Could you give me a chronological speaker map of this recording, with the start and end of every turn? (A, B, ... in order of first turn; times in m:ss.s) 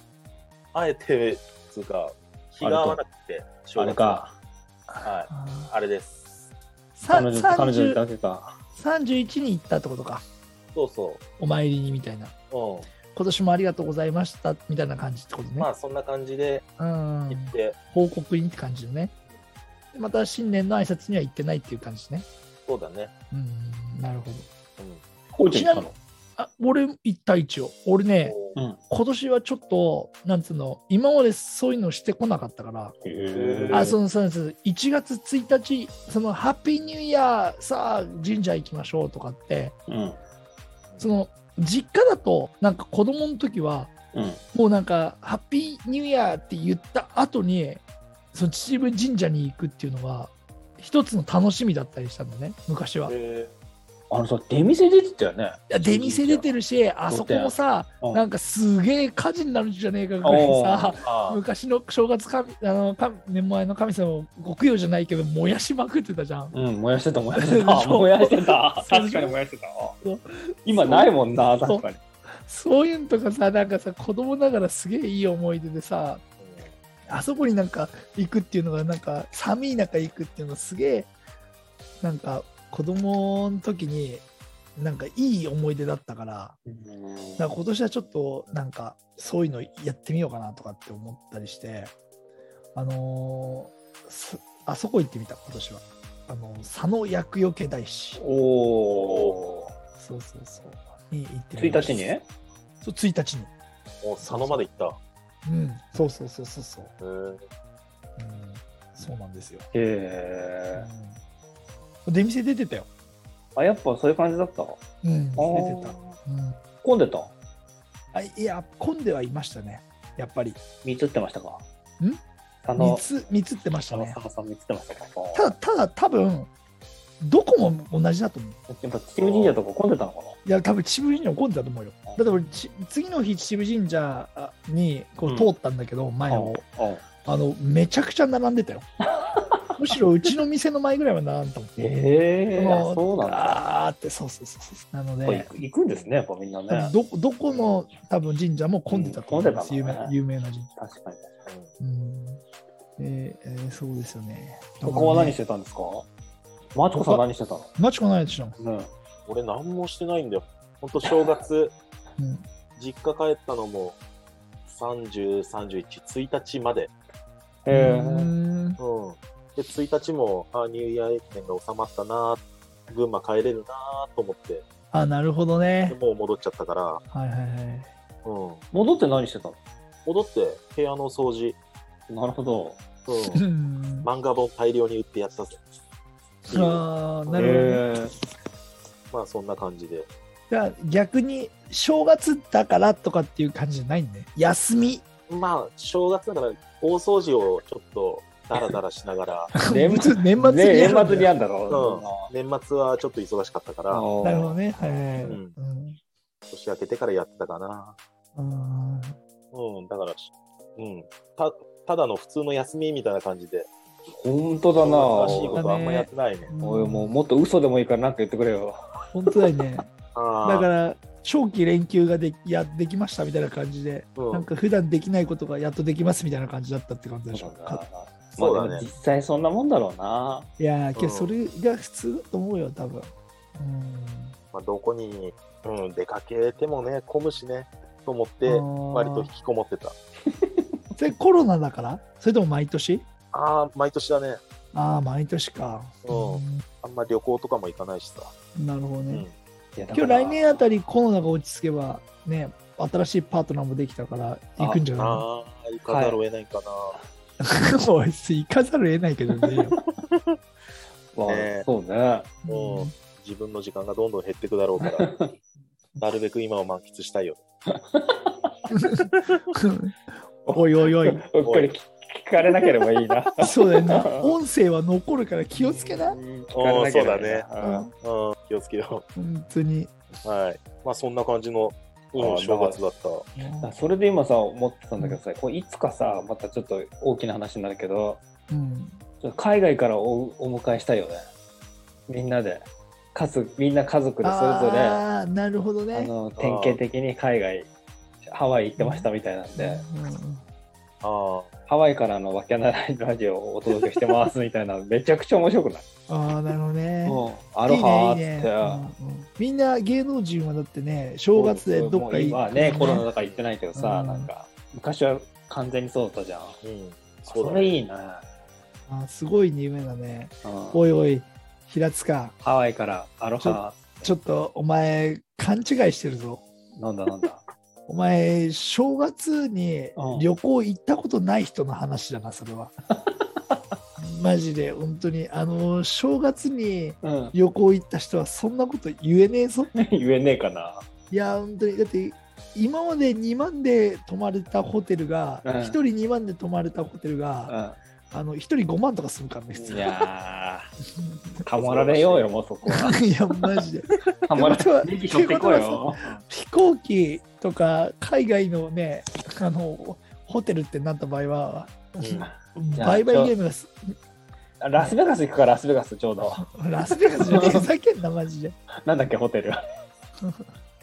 0:00.7-0:04.2 A
0:02.6-0:03.0 B
0:03.8-0:04.4 B
0:04.9-0:05.7 C
0:05.0-0:06.4 A
0:07.0-0:08.0 C
0:07.1-0:08.6 B
0:08.8-0:10.2 C
0:10.8-0:11.2 A
0:11.4-0:12.3 C
0:12.5-0:12.9 A
0:13.1-0:15.7 C
0:15.6-0:16.7 A
0:16.8-0:19.1 C
0:17.3-0:17.8 A
0:19.9-0:22.3 C
0:22.7-0:23.1 A
0:23.3-0:24.5 C
0:25.4-0:26.0 B
0:25.5-0:28.4 C
0:28.2-0:28.6 A
0:28.6-0:28.8 B
0:28.9-0:33.0 C
0:33.0-0:34.0 B
0:33.3-0:33.9 A
0:33.7-0:39.8 C
0:39.9-0:40.2 B
0:41.0-0:43.9 C
0:44.1-0:44.4 B
0:44.5-0:53.1 C
0:53.1-0:53.5 A
0:54.1-0:56.5 B
0:55.7-1:06.5 C
0:57.1-0:58.2 B
1:00.2-1:01.0 B
1:01.0-1:01.4 A
1:06.5-1:10.0 B
1:07.3-1:09.4 C
1:10.0-1:11.8 C
1:10.7-1:12.0 B
1:12.4-1:16.2 C
1:16.4-1:16.7 A
1:17.1-1:21.1 C
1:22.0-1:24.2 C
1:24.8-1:26.6 C
1:26.7-1:27.5 B
1:27.4-1:31.9 C
1:32.8-1:38.2 C
1:38.2-1:39.7 B
1:38.9-1:39.4 A
1:40.0-1:42.1 C
1:41.6-1:42.3 B
1:42.8-1:43.5 C
1:44.0-1:45.0 A
1:44.2-1:44.6 C
1:45.5-1:46.9 C
1:47.0-1:47.4 A
1:48.2-1:49.7 C
1:49.7-1:50.9 B
1:50.8-1:51.2 C
1:52.1-1:52.9 C
1:53.6-1:54.8 B
1:55.0-1:56.6 C
1:55.4-1:56.2 B
1:56.8-1:57.3 B
1:58.1-2:00.6 C
2:00.8-2:01.6 B
2:02.6-2:03.0 B
2:02.8-2:04.2 C
2:03.9-2:05.5 B
2:05.3-2:06.5 C
2:07.2-2:08.6 C
2:08.7-2:10.4 B
2:09.2-2:09.6 A
2:10.5-2:16.6 C
2:12.1-2:12.5 B
2:15.3-2:15.5 B
2:16.3-2:17.0 B
2:17.3-2:18.9 C
2:19.8-2:21.8 C
2:21.8-2:23.6 B
2:22.5-2:25.5 C
2:25.2-2:26.9 B
2:26.7-2:30.7 C
2:27.5-2:27.8 A
2:28.9-2:30.1 B
2:30.8-2:31.3 B
2:31.5-2:31.7 A
2:31.8-2:32.4 C
2:33.0-2:35.4 C
2:34.8-2:36.1 B
2:36.7-2:37.7 B
2:37.0-2:37.2 C
2:37.8-2:38.6 C
2:38.6-2:38.9 B
2:39.3-2:41.8 A
2:42.2-2:42.4 C
2:42.8-2:44.0 A
2:44.7-2:46.9 A
2:47.6-2:48.3 B
2:47.7-2:48.8 C
2:48.8-2:54.6 A
2:54.9-2:56.0 C
2:55.9-2:57.0 A
2:57.1-2:57.9 C
2:58.2-2:58.6 A
2:58.7-2:59.6 B
3:00.1-3:01.6 A
3:02.1-3:02.8 B
3:03.1-3:03.4 A
3:03.3-3:04.1 C
3:04.0-3:05.6 A
3:06.5-3:07.6 A
3:06.5-3:07.8 C
3:07.4-3:08.1 B
3:09.1-3:10.1 A
3:10.5-3:15.1 C
3:15.3-3:19.6 A
3:19.7-3:22.3 B
3:19.7-3:21.3 C
3:21.7-3:24.1 A
3:23.9-3:24.6 B
3:24.2-3:26.0 C
3:25.2-3:25.6 A
3:26.5-3:28.0 A
3:28.4-3:29.2 C
3:29.5-3:33.7 A
3:34.1-3:35.6 B
3:34.8-3:36.5 A
3:35.2-3:37.2 C
3:36.6-3:38.8 B
3:39.1-3:39.9 C
3:40.2-3:40.7 A
3:40.4-3:47.8 C
3:44.2-3:44.5 A
3:47.3-3:50.5 B
3:48.3-3:48.9 A
3:50.6-3:54.4 C
3:51.0-3:51.4 A
3:54.5-4:00.0 A
3:58.4-3:59.3 C
4:01.0-4:03.1 C
4:03.3-4:04.4 A
4:04.7-4:06.6 C
4:06.0-4:08.3 A
4:08.6-4:09.3 C
4:09.8-4:10.4 B
4:09.9-4:15.2 C
4:15.0-4:17.0 A
4:15.9-4:16.2 B
4:17.4-4:19.7 C
4:20.1-4:20.4 A
4:21.2-4:22.3 B
4:21.2-4:21.7 A
4:22.5-4:22.9 C
4:22.5-4:25.2 A
4:24.8-4:25.3 B
4:26.0-4:27.4 A
4:27.7-4:28.5 B
4:28.7-4:30.0 C
4:29.1-4:29.4 A
4:30.5-4:31.2 C
4:30.5-4:34.3 B
4:31.4-4:31.7 A
4:33.4-4:36.2 C
4:35.5-4:37.9 B
4:36.6-4:37.5 A
4:37.6-4:37.9 C
4:38.0-4:39.0 A
4:39.2-4:39.9 C
4:40.2-4:43.3 A
4:42.1-4:42.8 B
4:43.4-4:43.8 C
4:43.6-4:48.2 B
4:48.5-4:49.0 C
4:49.2-4:51.2 B
4:52.1-4:55.0 B
4:54.2-4:56.1 C
4:55.9-4:57.7 B
4:56.4-4:56.8 A
4:58.3-4:59.8 B
4:58.8-5:00.4 C
5:01.0-5:01.5 A
5:01.7-5:05.8 B
5:06.1-5:13.1 C
5:07.0-5:08.9 B
5:11.4-5:16.6 B
5:13.2-5:13.4 A
5:13.8-5:14.3 C
5:16.6-5:17.8 A
5:17.2-5:18.2 B
5:18.9-5:22.4 C
5:20.4-5:20.8 B
5:22.4-5:24.1 B
5:23.4-5:26.4 C
5:26.8-5:27.4 B
5:27.9-5:32.8 C
5:30.0-5:30.3 B
5:33.1-5:33.6 B
5:34.0-5:39.7 C
5:37.0-5:37.3 B
5:39.8-5:40.8 B
5:41.1-5:47.6 C
5:45.4-5:45.8 B
5:47.5-5:47.8 B
5:48.1-5:49.9 C
5:49.6-5:50.7 B
5:51.0-5:51.5 C
5:51.5-5:53.4 B
5:51.6-5:52.3 A
5:52.7-6:03.9 C
5:54.3-5:56.2 B
6:02.0-6:02.3 A
6:02.2-6:03.3 B
6:04.6-6:06.5 B
6:06.2-6:08.6 C
6:07.2-6:07.6 B
6:08.8-6:09.6 B
6:10.2-6:10.5 C